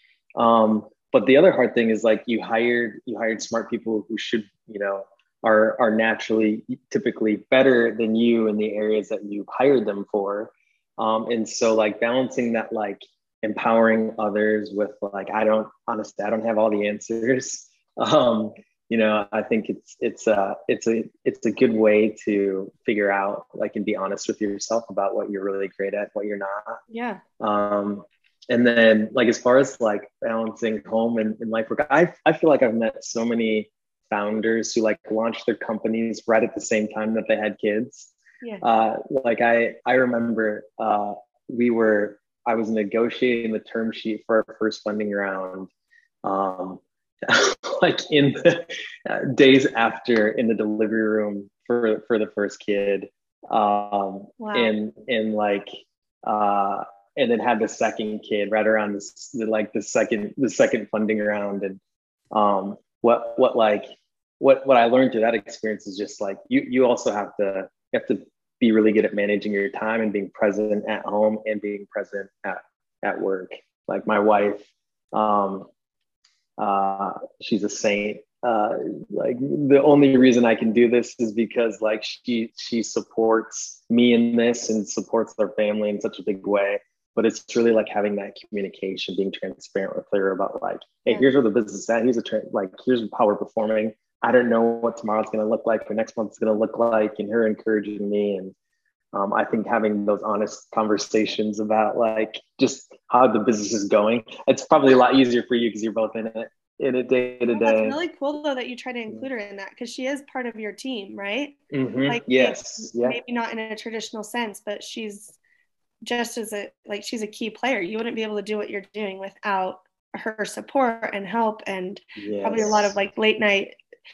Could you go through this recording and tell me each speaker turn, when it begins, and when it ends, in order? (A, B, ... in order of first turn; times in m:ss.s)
0:00.4-0:26.8 A
0:26.9-0:27.2 B
0:27.4-0:45.7 A
0:46.2-0:55.7 A
0:54.4-0:54.7 B
0:56.2-1:01.8 A
1:02.3-1:03.9 A
1:04.4-1:15.7 A
1:16.6-1:38.5 A
1:39.1-1:48.0 A
1:47.5-1:55.4 B
1:51.7-1:53.2 A
1:56.0-2:03.8 B
2:02.2-2:02.9 A